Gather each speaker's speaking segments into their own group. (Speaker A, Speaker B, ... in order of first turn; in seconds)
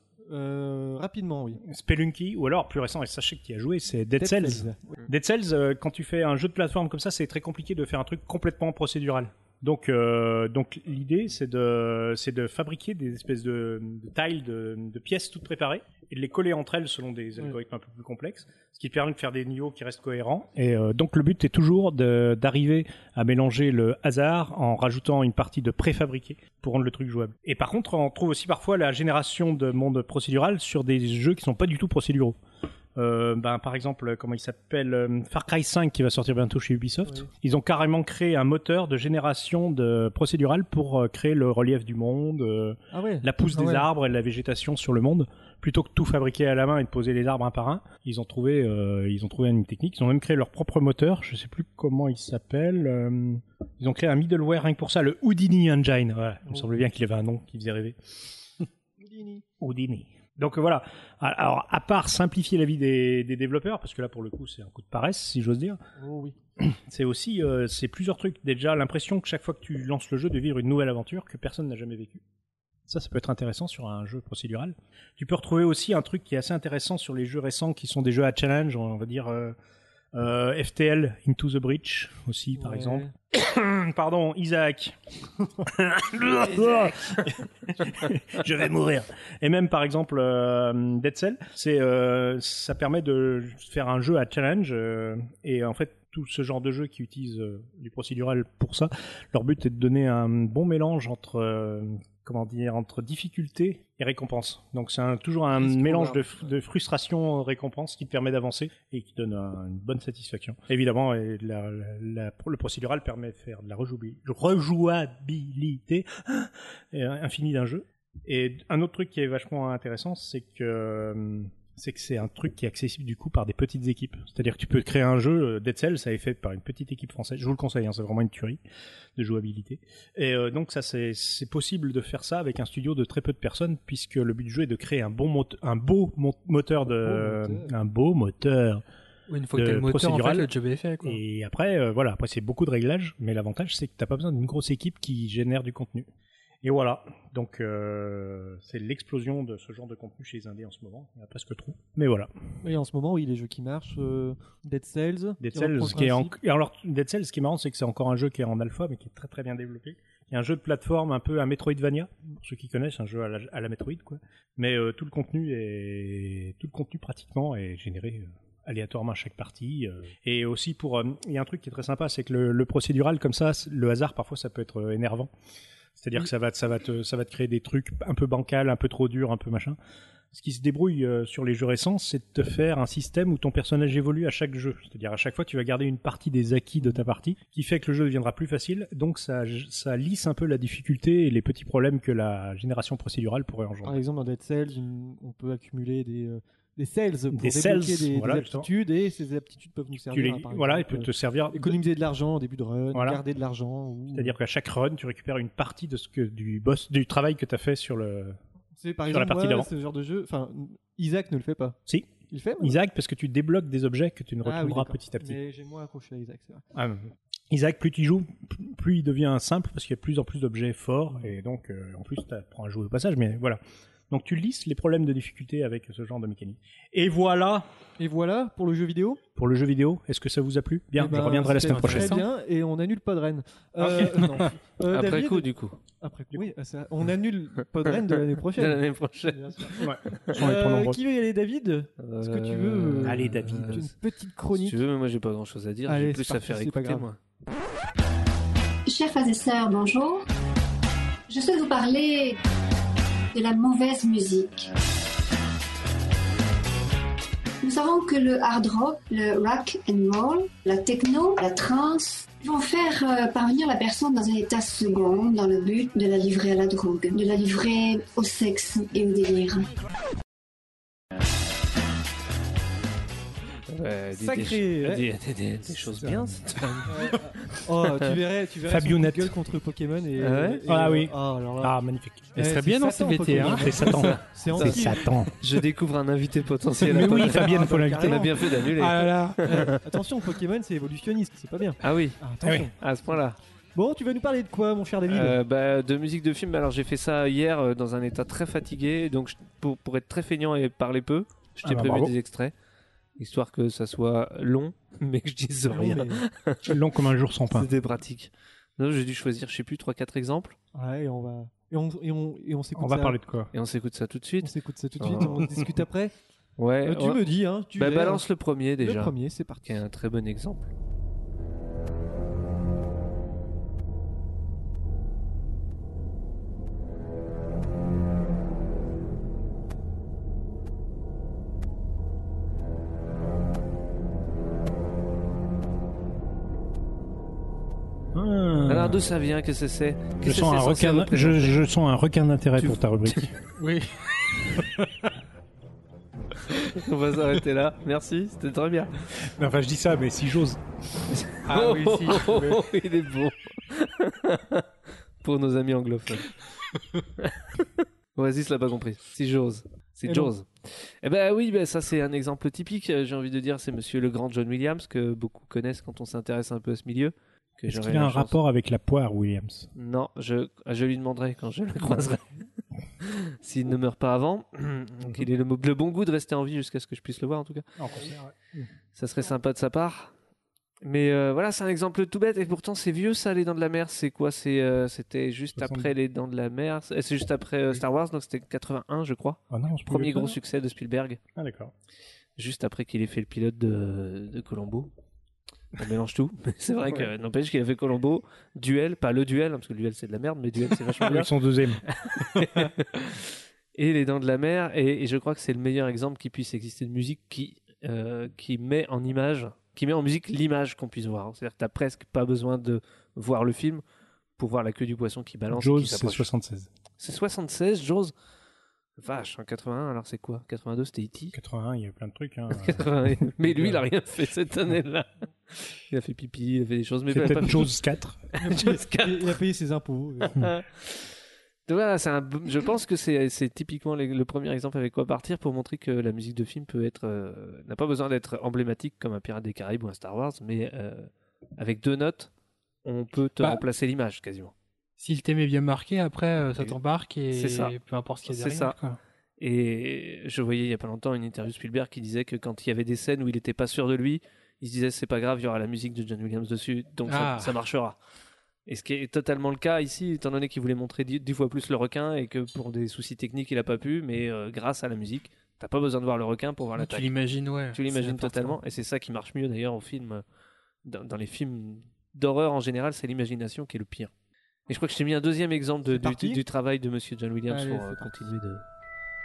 Speaker A: 0.3-1.6, 4.2-5.0, 42.9-43.9, 56.5-56.8, 59.0-59.5, 66.0-66.4, 82.6-83.1, 137.0-137.7, 152.6-156.3, 193.8-204.3, 208.8-211.8, 212.3-212.8, 214.4-216.7, 228.0-229.2, 231.0-244.8, 245.9-247.1, 274.1-275.1, 276.9-281.7, 282.4-285.1, 286.9-288.7, 289.4-293.2, 293.8-295.4, 305.7-306.2, 310.8-313.2, 314.4-316.1, 316.8-318.2, 318.8-319.8, 428.4-430.5, 475.9-476.4, 477.5-478.3
Speaker B: 1.6-32.4, 33.0-58.0, 59.6-65.8, 66.6-72.2, 72.9-79.6, 80.1-85.0, 85.6-128.6, 129.2-138.8, 139.5-140.5, 141.0-146.1, 146.6-152.3, 155.4-175.3, 176.0-179.8, 180.3-194.0, 197.3-198.7, 200.1-201.8, 202.9-203.2, 204.1-208.4, 209.1-209.7, 211.9-215.4, 216.7-227.7, 229.4-232.2, 233.8-234.4, 239.8-241.0, 243.0-243.8, 275.8-276.7, 278.7-279.3, 280.7-282.3, 283.4-285.3, 286.8-288.3, 292.4-292.7, 301.6-302.1, 306.6-307.7, 312.8-313.5, 338.1-339.0, 340.2-343.4, 349.2-350.6, 367.7-369.7, 377.8-378.7, 385.6-385.9, 389.5-390.4, 391.4-391.7, 396.9-397.1, 401.0-401.8, 415.5-416.7, 421.3-423.8, 427.1-428.2
Speaker C: 105.6-106.2, 234.9-235.8, 238.3-240.3, 242.0-243.9, 244.5-247.2, 273.7-277.6, 280.2-280.6, 283.9-284.8, 285.4-289.8, 291.8-293.4, 295.1-302.5, 303.2-306.8, 307.5-310.6, 313.5-315.4, 316.6-317.2, 317.8-320.7, 338.7-341.6, 342.6-343.3, 346.6-349.0, 351.1-354.7, 355.2-356.3, 357.2-368.4, 369.8-372.2, 373.0-377.7, 378.9-380.1, 380.8-391.2, 392.4-394.9, 395.8-401.3, 401.8-413.8, 414.4-416.3, 417.0-418.1, 419.0-421.4, 422.5-427.8, 428.4-429.3, 430.4-431.1, 431.7-442.3, 442.9-444.5, 447.3-447.8, 448.3-448.8, 449.4-458.0, 458.7-467.1, 467.7-470.2, 470.9-474.1, 474.7-478.6
Speaker D: 139.3-141.2, 231.4-232.3, 282.4-283.9, 288.8-289.6, 343.6-343.9, 351.5-352.6, 445.0-449.0, 457.1-457.5, 466.8-468.6
Speaker E: 248.9-250.2, 251.3-252.4, 253.3-254.7, 257.6-269.7